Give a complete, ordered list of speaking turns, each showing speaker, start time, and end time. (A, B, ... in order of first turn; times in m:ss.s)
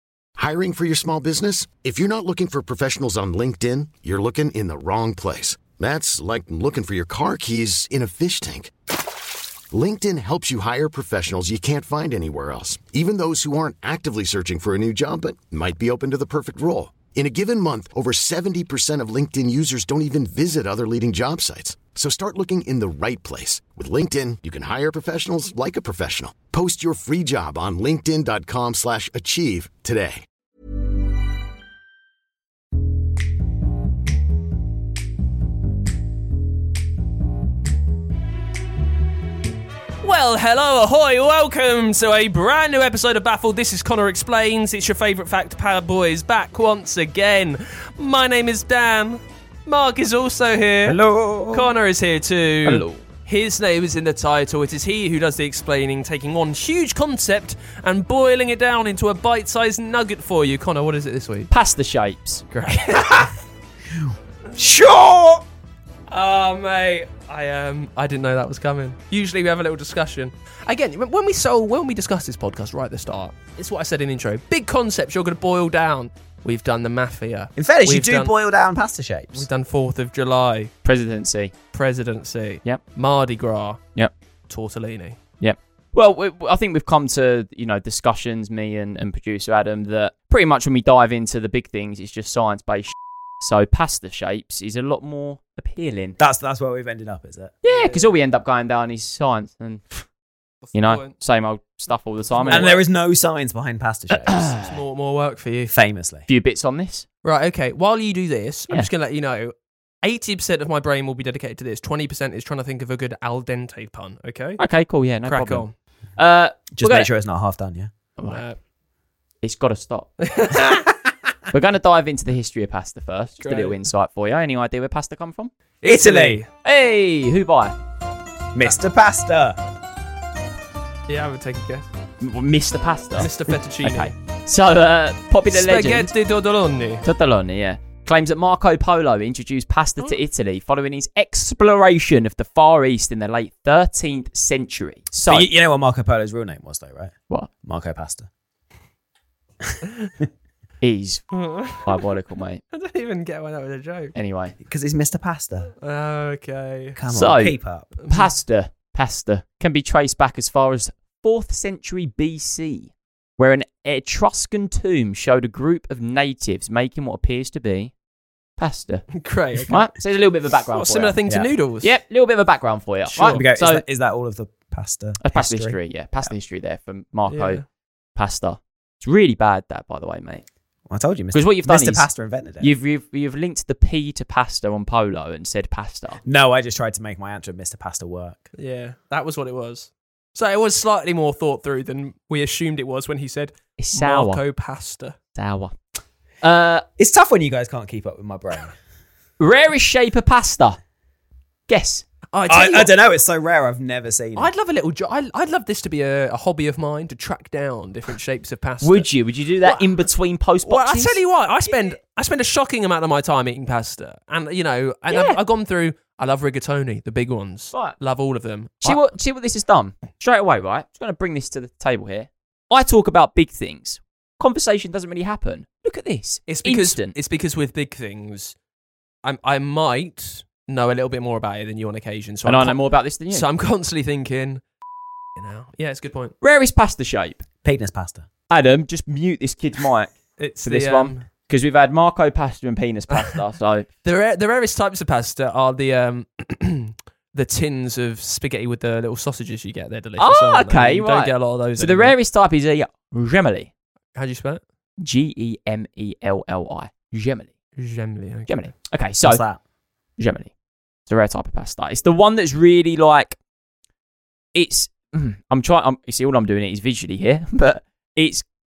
0:00.4-0:08.7 A
0:09.7-0:30.2 A
0:40.0-0:51.0 B
0:50.8-0:51.7 C
0:51.5-1:01.5 B
0:52.6-0:53.0 D
1:01.5-1:02.4 D
1:02.5-1:03.3 B
1:03.9-1:05.4 C
1:06.1-1:18.3 B
1:17.6-1:19.5 C
1:19.3-1:20.7 B
1:20.8-1:21.5 D
1:21.7-1:23.8 B
1:24.5-1:25.2 B
1:25.4-1:36.2 D
1:36.2-1:37.5 C
1:37.6-1:38.1 B
1:37.6-1:40.0 D
1:40.6-1:41.2 B
1:40.7-1:42.6 D
1:42.3-1:42.8 B
1:42.5-1:44.5 C
1:44.3-1:44.6 D
1:44.6-1:45.7 B
1:45.7-1:46.2 C
1:46.3-1:47.0 D
1:47.2-1:54.6 B
1:54.6-1:55.6 D
1:55.2-1:55.7 B
1:56.2-1:57.1 D
1:56.7-1:57.9 C
1:58.2-1:58.6 B
1:59.4-2:00.1 D
2:00.2-2:01.0 B
2:01.5-2:05.5 D
2:03.4-2:03.8 B
2:05.8-2:06.5 B
2:05.9-2:06.4 C
2:06.6-2:07.7 D
2:08.5-2:09.6 C
2:11.1-2:11.9 B
2:12.2-2:13.3 D
2:13.2-2:14.1 B
2:13.8-2:16.1 D
2:15.5-2:17.0 B
2:17.0-2:25.5 D
2:25.3-2:27.1 C
2:27.6-2:28.3 C
2:30.8-2:31.2 D
2:31.3-2:32.2 B
2:31.8-2:32.6 D
2:32.7-2:34.1 B
2:34.1-2:34.5 D
2:34.6-2:35.7 C
2:35.8-2:37.0 B
2:37.0-2:37.9 C
2:37.2-2:37.5 D
2:38.0-2:38.3 B
2:38.1-2:47.9 D
2:48.6-2:49.0 D
2:49.1-2:49.9 B
2:49.7-2:51.1 D
2:50.7-2:51.9 B
2:51.8-2:53.8 D
2:53.1-2:53.4 B
2:53.2-2:55.8 C
2:55.2-2:57.6 D
2:57.3-2:57.6 B
2:58.2-3:00.4 D
3:00.9-3:02.7 C
3:01.3-3:02.0 D
3:02.6-3:06.2 D
3:06.2-3:08.5 C
3:08.5-3:15.2 B
3:13.8-3:14.4 D
3:15.4-3:15.7 D
3:16.4-3:16.8 D
3:17.0-3:18.7 C
3:19.4-3:20.8 D
3:21.7-3:22.0 D
3:22.3-3:22.9 B
3:22.5-3:24.5 C
3:24.4-3:30.1 B
3:28.8-3:31.2 D
3:30.6-3:39.0 B
3:38.8-3:47.1 D
3:46.4-3:48.5 B
3:49.2-3:54.6 B
3:52.4-3:53.4 D
3:55.4-3:56.3 B
3:56.4-3:57.4 D
3:57.6-3:58.3 C
3:58.5-4:03.9 D
4:00.4-4:01.3 B
4:04.0-4:12.2 B
4:10.2-4:13.7 D
4:14.1-4:14.6 B
4:15.0-4:17.5 D
4:17.8-4:18.7 B
4:18.5-4:19.4 D
4:19.2-4:19.6 C
4:20.2-4:20.5 D
4:21.1-4:23.4 D
4:24.5-4:28.4 D